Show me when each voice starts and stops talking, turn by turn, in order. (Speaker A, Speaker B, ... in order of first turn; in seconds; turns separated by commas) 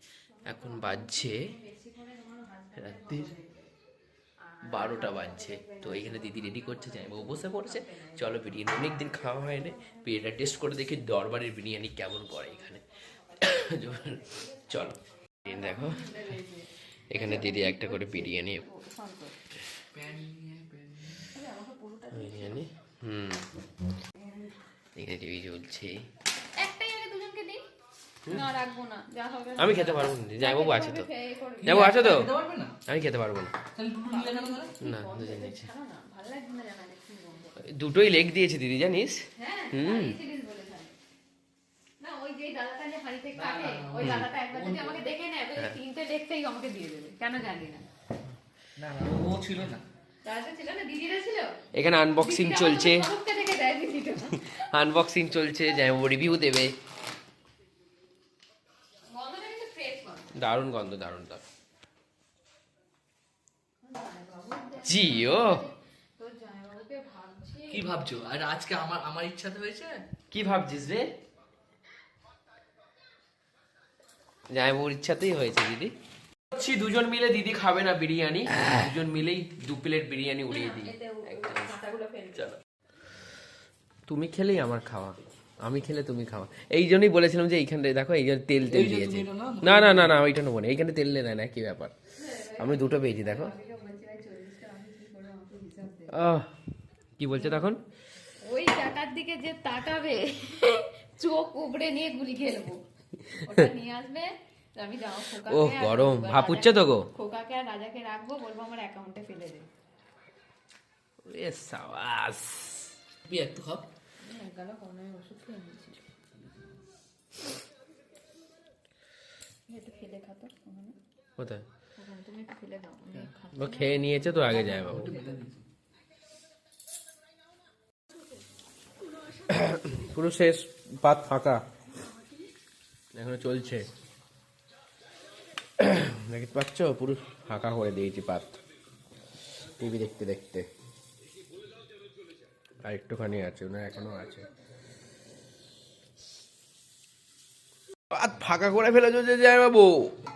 Speaker A: 0.4-3.7, Speaker B: 0.5-1.4, Speaker B: 2.8-3.3, Speaker A: 4.5-10.0, Speaker B: 4.6-12.8, Speaker B: 13.3-16.1, Speaker A: 15.4-19.3, Speaker B: 17.1-18.6, Speaker C: 19.9-21.3, Speaker A: 21.3-22.6, Speaker B: 22.1-23.5, Speaker A: 24.2-24.4, Speaker B: 24.9-26.0, Speaker A: 26.5-27.6, Speaker A: 28.3-32.3, Speaker B: 29.6-31.1, Speaker C: 31.6-32.8, Speaker B: 31.6-32.3, Speaker B: 32.9-33.5, Speaker C: 33.7-34.8, Speaker A: 34.0-37.6, Speaker B: 34.8-35.7, Speaker B: 37.6-40.2, Speaker A: 39.4-40.9, Speaker A: 42.0-47.9, Speaker C: 43.3-45.0, Speaker B: 44.0-44.3, Speaker C: 48.8-49.8, Speaker A: 50.2-51.6, Speaker B: 51.7-53.1, Speaker A: 52.2-54.6, Speaker B: 54.3-56.7, Speaker A: 59.1-60.3, Speaker B: 60.3-61.4, Speaker A: 63.8-67.8, Speaker B: 64.8-65.6, Speaker C: 67.7-70.0, Speaker B: 70.3-71.1, Speaker B: 74.5-75.9, Speaker B: 76.5-81.7, Speaker A: 80.5-82.5, Speaker B: 84.1-91.9, Speaker C: 88.7-90.2, Speaker A: 92.2-96.1, Speaker B: 92.6-93.5, Speaker B: 96.1-96.5, Speaker B: 97.2-97.8, Speaker A: 98.4-109.7, Speaker B: 105.4-107.1, Speaker B: 111.2-112.9, Speaker C: 113.2-113.8, Speaker A: 114.2-116.0, Speaker A: 119.7-121.0, Speaker B: 121.4-121.6, Speaker A: 122.0-125.4, Speaker B: 123.5-125.2, Speaker C: 124.6-125.6, Speaker B: 129.5-131.6, Speaker B: 133.1-133.9, Speaker B: 135.8-138.5, Speaker B: 139.8-140.7, Speaker B: 142.8-144.5, Speaker B: 148.1-150.1